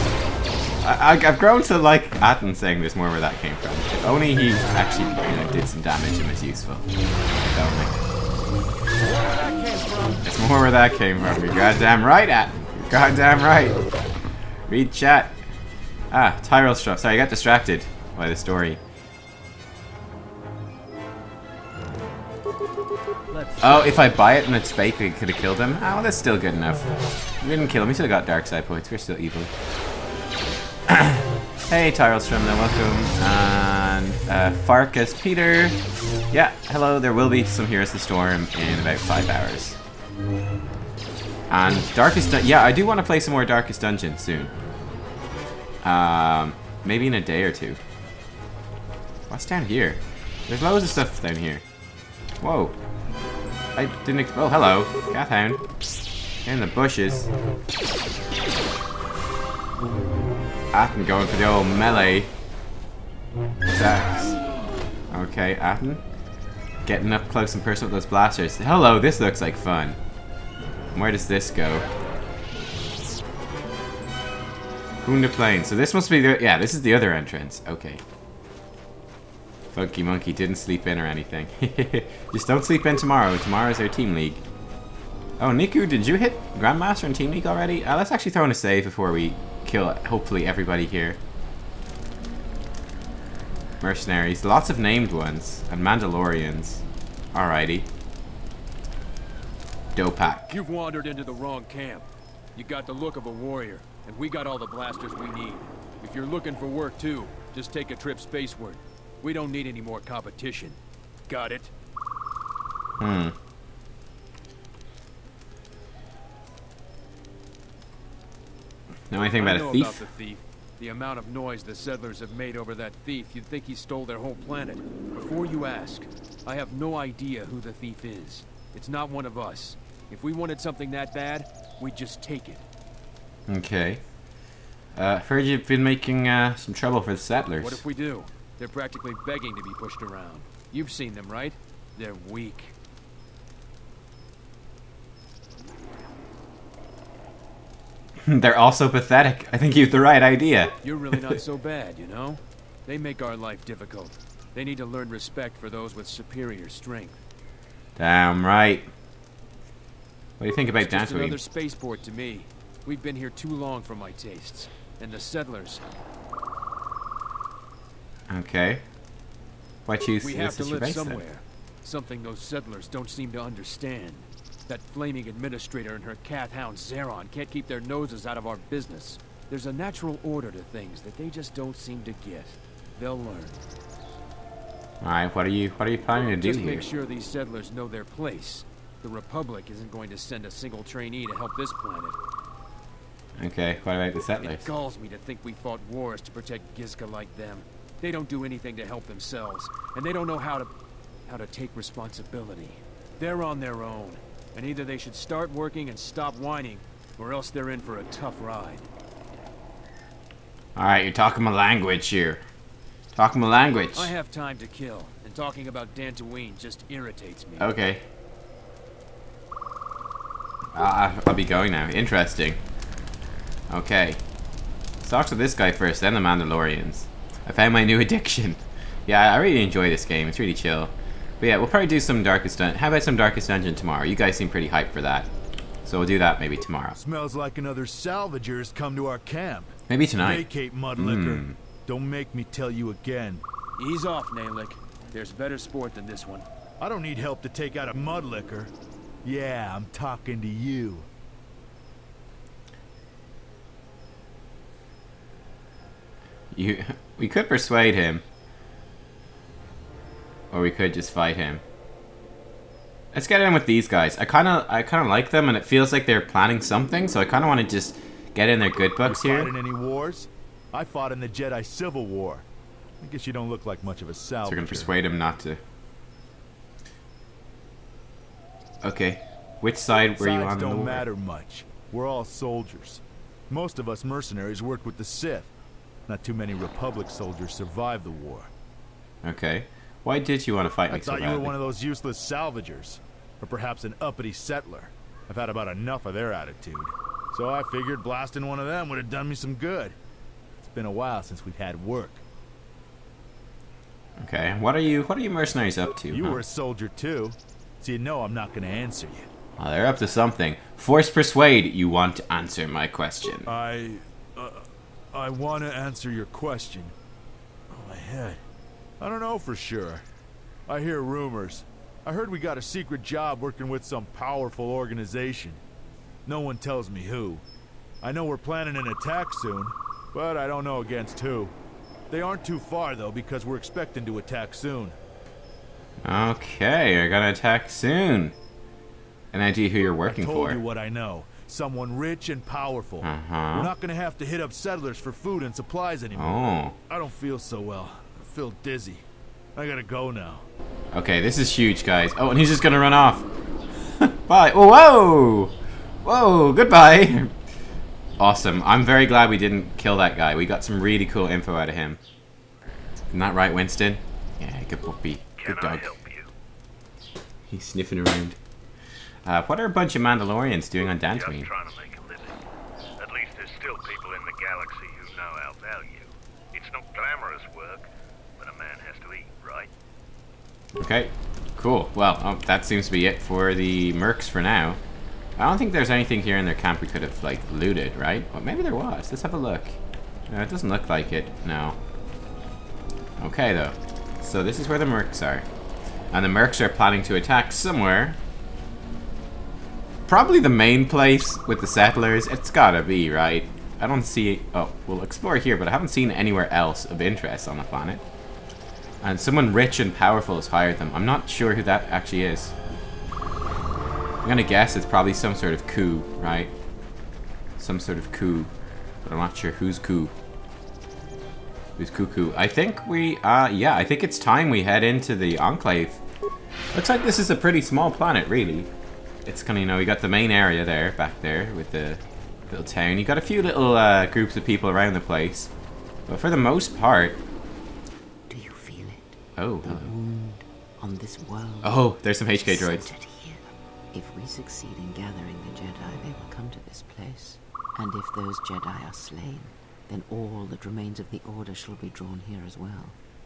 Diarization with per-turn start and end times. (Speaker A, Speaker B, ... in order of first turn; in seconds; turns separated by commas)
Speaker A: 0.8-6.9, Speaker A: 7.4-8.0, Speaker B: 9.0-10.2, Speaker A: 10.2-13.8, Speaker A: 14.7-15.4, Speaker A: 16.1-18.8, Speaker B: 23.3-23.8, Speaker A: 23.6-29.5, Speaker A: 30.9-35.8, Speaker A: 36.3-39.8, Speaker A: 41.5-44.5, Speaker A: 45.8-47.8, Speaker A: 49.3-51.6, Speaker A: 52.4-52.7, Speaker A: 53.7-55.6, Speaker A: 56.4-57.3, Speaker A: 60.7-62.3, Speaker A: 63.7-64.4, Speaker A: 65.1-66.0, Speaker A: 66.8-70.0, Speaker A: 70.9-71.8, Speaker A: 75.0-78.0, Speaker A: 79.7-84.4, Speaker A: 85.4-91.2, Speaker A: 93.8-97.9, Speaker A: 99.9-100.6, Speaker B: 100.5-110.8, Speaker B: 111.3-111.7, Speaker A: 113.0-113.3, Speaker A: 119.1-120.0, Speaker B: 119.3-132.6, Speaker A: 133.5-134.0, Speaker A: 134.9-137.8, Speaker B: 137.6-142.7, Speaker A: 148.2-151.3, Speaker B: 150.8-157.2, Speaker A: 158.0-158.9, Speaker A: 160.4-161.4, Speaker B: 160.8-165.8, Speaker A: 168.3-168.8, Speaker A: 169.8-171.2, Speaker B: 170.2-183.6, Speaker A: 185.0-186.8, Speaker B: 186.3-192.2, Speaker A: 193.4-194.7, Speaker B: 194.4-200.7, Speaker B: 201.3-208.9, Speaker A: 210.8-212.4, Speaker A: 213.1-214.1, Speaker B: 213.9-217.7, Speaker A: 217.6-218.0, Speaker A: 220.7-222.6, Speaker A: 223.7-224.2, Speaker A: 225.0-235.3, Speaker A: 235.8-237.0, Speaker C: 236.9-243.4, Speaker A: 239.9-241.6, Speaker B: 243.8-246.5, Speaker C: 246.8-248.7, Speaker C: 249.2-251.1, Speaker A: 256.5-258.2, Speaker A: 260.5-261.6, Speaker A: 263.1-269.5, Speaker C: 269.0-272.4, Speaker C: 273.0-274.9, Speaker A: 274.4-275.6, Speaker A: 278.8-281.1, Speaker C: 280.2-285.5, Speaker C: 286.1-288.5, Speaker A: 289.2-291.6, Speaker C: 290.9-299.9, Speaker C: 300.6-302.2, Speaker A: 304.2-306.4, Speaker C: 306.1-309.3, Speaker A: 309.6-313.5, Speaker C: 313.5-316.9, Speaker C: 317.7-318.4, Speaker C: 319.0-320.0, Speaker C: 320.7-325.6, Speaker C: 326.2-327.4, Speaker C: 328.0-331.5, Speaker C: 332.1-334.9, Speaker A: 336.0-338.3, Speaker A: 339.3-340.6, Speaker C: 340.0-346.4, Speaker A: 343.0-343.7, Speaker A: 346.1-346.7, Speaker C: 346.9-349.0, Speaker C: 349.6-350.4, Speaker A: 350.9-353.2, Speaker A: 354.0-357.3, Speaker A: 358.2-362.0, Speaker A: 363.1-365.9, Speaker D: 365.4-366.2, Speaker A: 367.5-368.4, Speaker A: 369.2-371.5, Speaker D: 371.1-372.2, Speaker D: 373.0-376.0, Speaker D: 376.6-377.8, Speaker D: 378.4-379.6, Speaker A: 380.8-384.8, Speaker A: 385.4-391.8, Speaker A: 393.2-395.4, Speaker A: 396.1-398.2, Speaker A: 400.1-408.0, Speaker A: 409.0-412.5, Speaker A: 414.2-416.5, Speaker A: 417.6-418.5, Speaker A: 419.0-420.1, Speaker A: 421.8-426.0, Speaker A: 426.7-428.7, Speaker A: 429.2-435.5, Speaker A: 436.1-437.2, Speaker E: 438.3-453.0, Speaker A: 439.4-439.9, Speaker A: 441.6-442.8